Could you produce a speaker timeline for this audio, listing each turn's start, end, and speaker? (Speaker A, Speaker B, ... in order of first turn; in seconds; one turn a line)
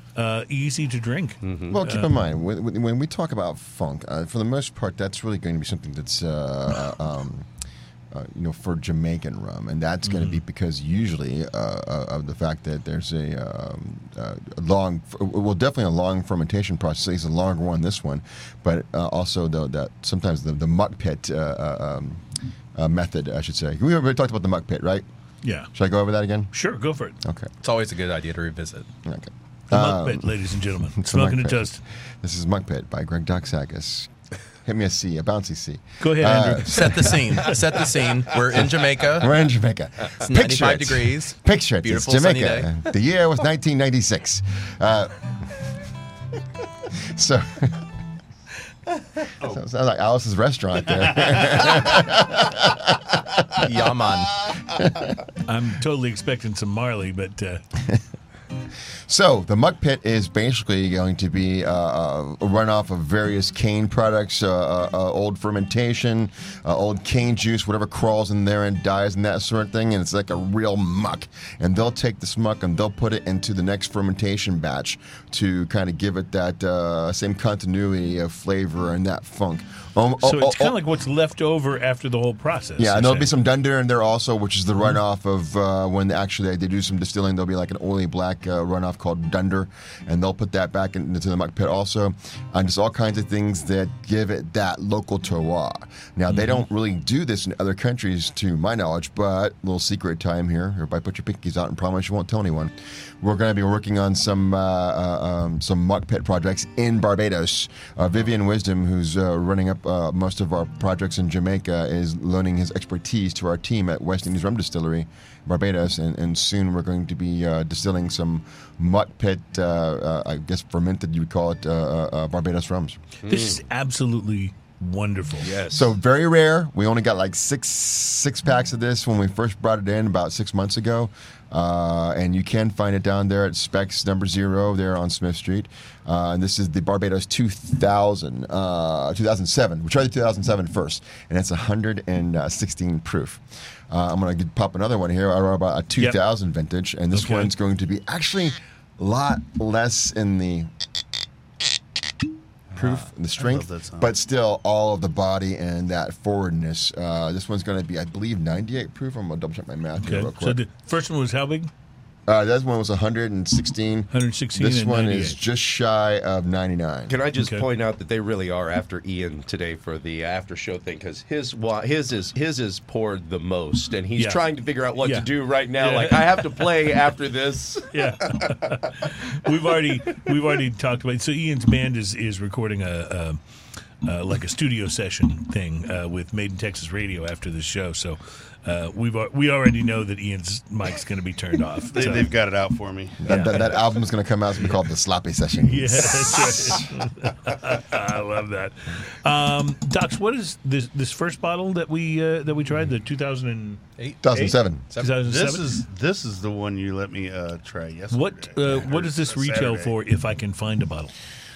Speaker A: 0.2-2.1
Speaker B: 1.4-1.8
Speaker C: 1.7-7.5
Speaker C: 8.1-22.2
Speaker A: 10.0-10.4
Speaker C: 22.8-25.1
Speaker A: 25.4-25.7
Speaker C: 25.7-26.5
Speaker A: 26.5-27.2
Speaker C: 27.2-27.5
Speaker D: 27.6-28.9
Speaker C: 29.1-34.1
Speaker A: 29.7-31.8
Speaker C: 34.6-37.8
Speaker A: 36.0-37.1
Speaker D: 36.7-39.4
Speaker C: 38.5-45.3
Speaker D: 40.2-42.7
Speaker C: 47.0-47.9
Speaker C: 49.4-54.1
Speaker D: 53.6-54.4
Speaker C: 54.7-55.1
Speaker A: 55.5-57.6
Speaker C: 59.1-80.8
Speaker A: 80.2-83.3
Speaker C: 82.8-123.0
Speaker A: 96.3-96.6
Speaker B: 123.2-123.6
Speaker A: 123.3-125.5
Speaker B: 125.4-125.9
Speaker C: 125.7-150.7
Speaker A: 147.1-147.5
Speaker E: 152.7-154.1
Speaker C: 152.8-160.6
Speaker A: 160.0-161.7
Speaker C: 162.3-167.1
Speaker A: 164.1-165.4
Speaker B: 167.1-178.7
Speaker A: 167.4-167.7
Speaker A: 174.2-174.4
Speaker A: 175.0-176.7
Speaker A: 177.9-183.4
Speaker A: 184.0-192.3
Speaker E: 191.9-193.2
Speaker C: 193.2-196.9
Speaker A: 193.3-193.7
Speaker A: 195.7-203.8
Speaker D: 204.0-205.2
Speaker C: 204.2-204.8
Speaker A: 204.3-205.8
Speaker E: 205.2-209.9
Speaker A: 208.1-211.1